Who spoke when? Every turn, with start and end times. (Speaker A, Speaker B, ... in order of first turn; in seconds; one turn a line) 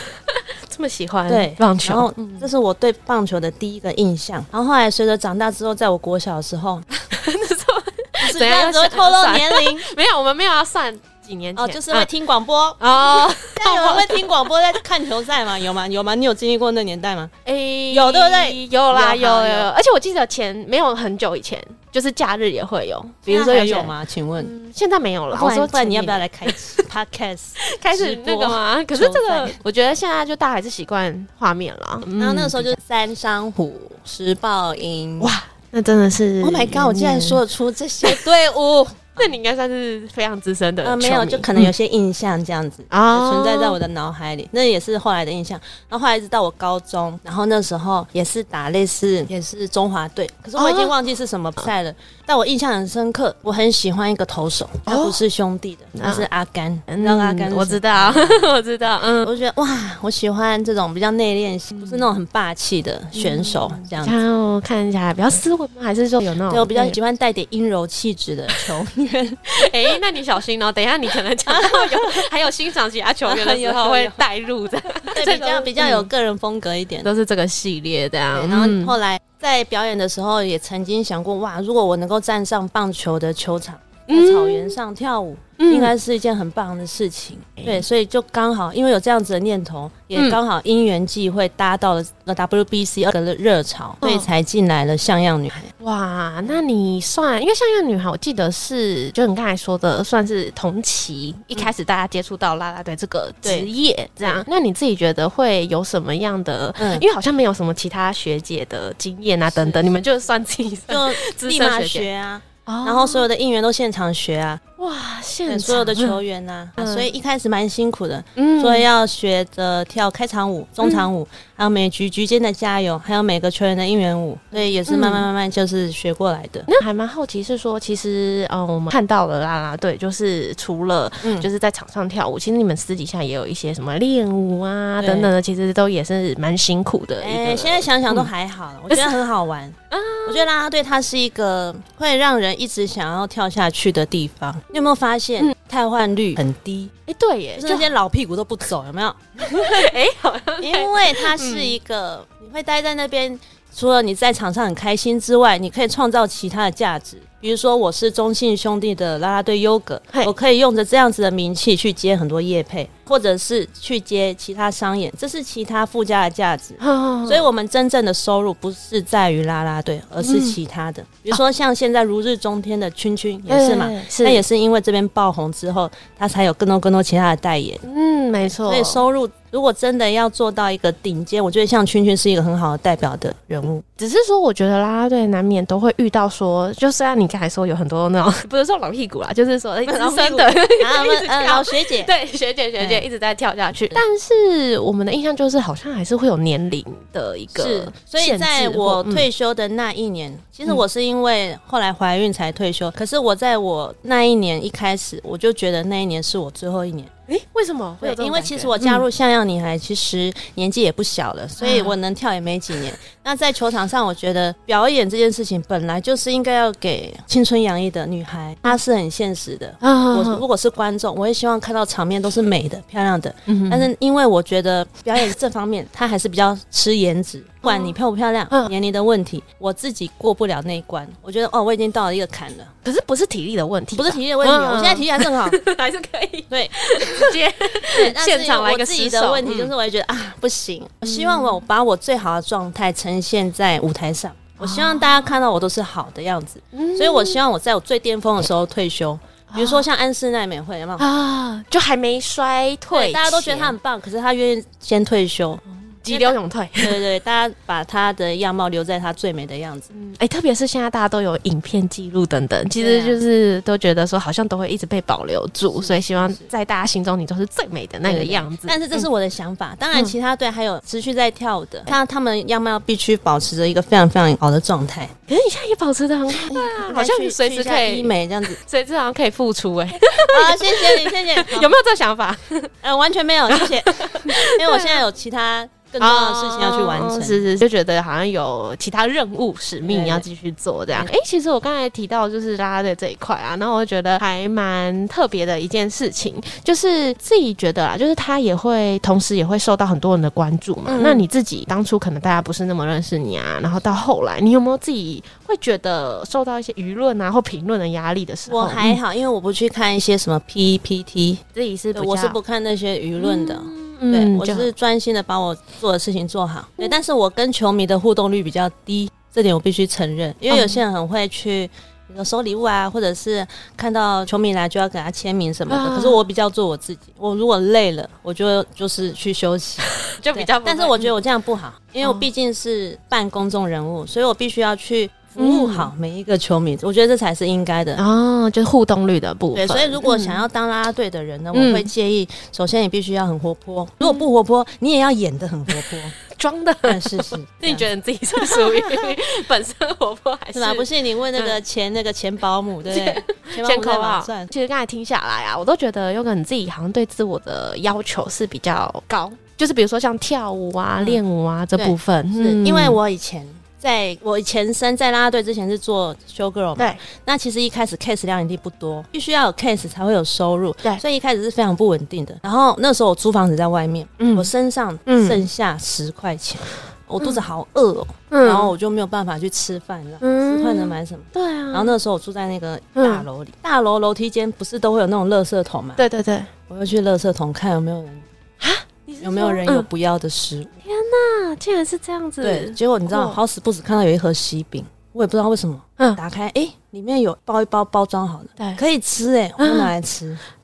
Speaker A: 0.7-2.5
Speaker B: 1.3-6.9
Speaker A: 7.0-12.1
Speaker B: 8.2-9.9
Speaker B: 11.6-17.4
Speaker A: 12.8-14.2
Speaker A: 17.4-26.6
Speaker B: 17.9-19.7
Speaker B: 23.2-24.5
Speaker B: 25.3-29.6
Speaker A: 27.6-32.7
Speaker B: 32.2-35.3
Speaker A: 35.2-37.4
Speaker B: 36.4-39.3
Speaker A: 39.1-41.7
Speaker B: 40.8-58.5
Speaker A: 42.9-43.8
Speaker A: 50.6-50.9
Speaker A: 54.9-55.2
Speaker A: 56.0-56.3
Speaker A: 56.9-59.3
Speaker B: 59.2-64.2
Speaker A: 61.8-62.1
Speaker A: 63.1-67.0
Speaker B: 66.5-70.0
Speaker A: 69.5-76.1
Speaker B: 71.5-72.2
Speaker B: 73.2-74.2
Speaker B: 75.1-77.1
Speaker A: 77.0-78.9
Speaker B: 78.3-95.7
Speaker A: 84.1-84.8
Speaker A: 85.6-85.9
Speaker A: 94.0-94.3
Speaker A: 95.8-112.1
Speaker B: 103.4-103.7
Speaker B: 106.8-107.0
Speaker B: 109.5-110.0
Speaker B: 110.9-114.6
Speaker A: 112.7-113.2
Speaker A: 114.8-116.2
Speaker B: 115.5-126.7
Speaker A: 116.8-117.1
Speaker A: 118.4-118.9
Speaker A: 120.8-121.1
Speaker A: 124.9-125.2
Speaker A: 126.7-138.3
Speaker B: 131.2-131.5
Speaker B: 135.0-135.3
Speaker B: 137.2-146.9
Speaker A: 139.9-140.4
Speaker A: 147.1-147.9
Speaker B: 147.6-149.9
Speaker A: 149.4-151.8
Speaker B: 150.6-177.8
Speaker A: 166.8-167.5
Speaker A: 170.2-170.6
Speaker A: 173.5-174.4
Speaker A: 177.8-179.0
Speaker B: 178.4-183.8
Speaker A: 184.0-199.2
Speaker B: 189.9-192.1
Speaker B: 192.8-193.0
Speaker B: 197.5-207.1
Speaker A: 207.3-209.0
Speaker B: 208.0-232.7
Speaker A: 211.6-211.9
Speaker A: 219.8-220.4
Speaker A: 223.5-223.9
Speaker A: 227.6-227.9
Speaker A: 232.8-239.7
Speaker B: 233.9-235.6
Speaker B: 236.5-237.3
Speaker B: 237.9-251.1
Speaker A: 241.1-241.6
Speaker A: 244.6-245.3
Speaker A: 246.7-247.4
Speaker A: 249.5-249.8
Speaker A: 251.0-253.8
Speaker B: 252.9-259.9
Speaker A: 255.7-257.0
Speaker A: 259.9-269.1
Speaker B: 262.8-263.2
Speaker B: 265.7-266.5
Speaker B: 268.1-275.1
Speaker A: 275.3-282.7
Speaker B: 276.4-278.6
Speaker B: 280.1-281.8
Speaker B: 282.8-287.4
Speaker A: 283.5-285.0
Speaker A: 286.0-309.0
Speaker B: 289.8-290.3
Speaker B: 300.9-301.3
Speaker B: 308.5-311.4
Speaker A: 311.5-312.4
Speaker B: 311.9-338.0
Speaker A: 313.2-314.7
Speaker A: 320.5-320.8
Speaker A: 325.7-326.2
Speaker A: 330.1-331.1
Speaker A: 335.4-335.9
Speaker A: 338.0-340.4
Speaker B: 339.6-346.2
Speaker A: 341.5-341.9
Speaker A: 346.3-351.6
Speaker B: 346.8-347.9
Speaker B: 348.4-349.1
Speaker B: 350.5-354.5
Speaker A: 352.9-363.0
Speaker B: 361.8-386.0
Speaker A: 374.2-374.5
Speaker A: 375.1-375.4
Speaker A: 378.3-378.7
Speaker A: 380.2-381.9
Speaker A: 382.9-383.2
Speaker A: 386.0-386.5
Speaker B: 386.7-388.2
Speaker A: 388.6-389.9
Speaker B: 389.2-390.8
Speaker A: 390.8-393.4
Speaker B: 392.4-400.4
Speaker A: 398.6-398.8
Speaker A: 399.6-399.9